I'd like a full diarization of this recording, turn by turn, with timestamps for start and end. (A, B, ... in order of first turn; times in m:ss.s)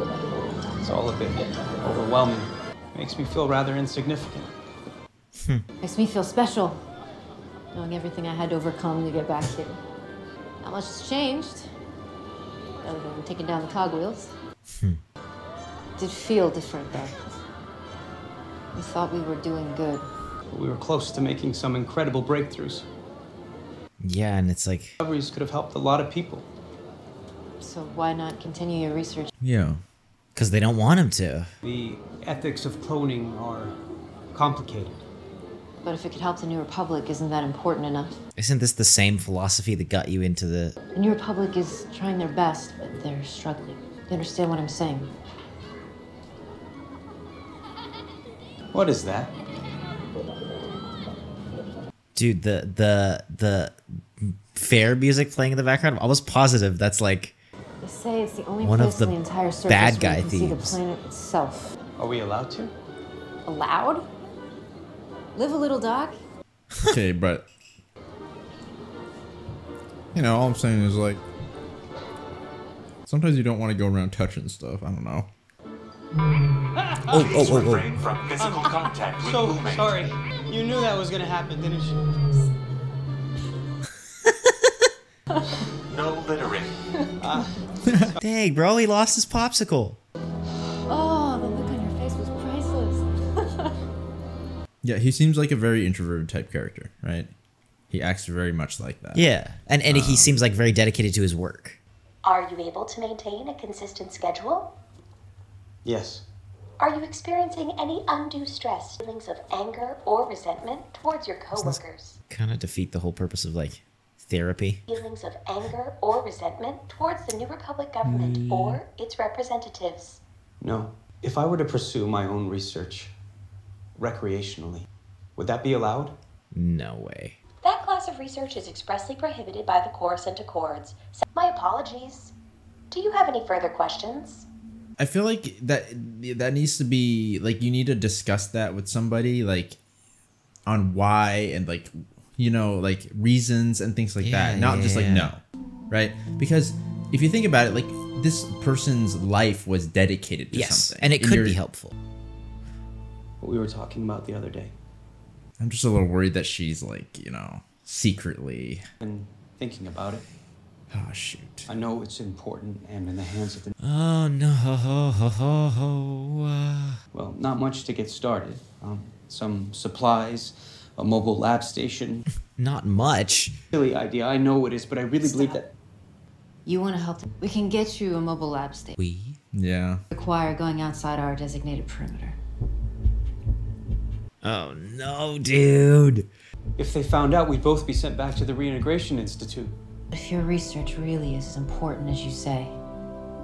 0:00.8-0:04.5 A
0:05.4-0:05.7 B
0:05.8-0:06.8 C
0:07.7-0:09.8 C
0:10.6-0:11.7 C
0:12.8-0:14.3 C
0:14.7-0:15.0 B
0:16.0-0:17.2 C
0:18.7-0:20.1 C
0:20.5-0:22.9 A
0:24.0-0:25.0 B
0:25.0-0:26.5 A
0:27.6-0:29.3 C
0:29.4-0:29.8 D
0:30.4-0:31.5 B
0:31.6-0:33.8 A
0:34.3-0:35.0 A
0:35.8-0:38.2 C
0:38.4-0:40.8 B
0:41.0-0:45.1 C
0:48.7-0:49.3 A
0:52.2-0:57.4 B
0:57.8-1:01.8 C
0:58.6-1:00.8 B
1:02.0-1:02.7 A
1:03.5-1:04.1 C
1:05.4-1:06.2 C
1:06.8-1:07.4 D
1:10.1-1:11.2 D
1:13.1-1:15.3 D
1:17.1-1:17.9 B
1:17.2-1:20.1 E
1:18.4-1:22.0 A
1:25.9-1:26.8 E
1:27.2-1:27.6 A
1:27.9-1:28.1 D
1:28.2-1:30.0 B
1:30.9-1:33.8 C
1:34.8-1:37.3 D
1:37.9-1:39.3 D
1:39.1-1:41.8 B
1:39.9-1:40.3 D
1:42.2-1:44.7 F
1:45.8-1:46.2 A
1:46.8-1:52.2 F
1:51.6-1:54.8 B
1:54.9-2:00.2 F
1:58.1-1:58.8 B
2:00.6-2:03.1 A
2:04.0-2:06.2 A
2:06.5-2:07.4 B
2:07.6-2:12.3 F
2:12.9-2:14.5 F
2:15.0-2:19.8 D
2:20.7-2:31.6 D
2:24.2-2:25.3 B
2:30.5-2:32.0 B
2:33.4-2:34.7 A
2:35.6-2:38.8 D
2:39.0-2:40.2 A
2:40.9-2:41.7 D
2:41.7-2:43.8 A
2:43.8-2:47.0 B
2:47.1-2:52.3 A
2:52.6-2:53.6 B
2:53.7-2:55.7 A
2:55.2-2:55.6 C
2:56.7-2:59.0 C
2:59.0-2:59.4 B
2:59.5-3:00.0 D
3:00.1-3:02.4 C
3:04.4-3:06.3 B
3:06.8-3:09.8 A
3:10.1-3:12.8 C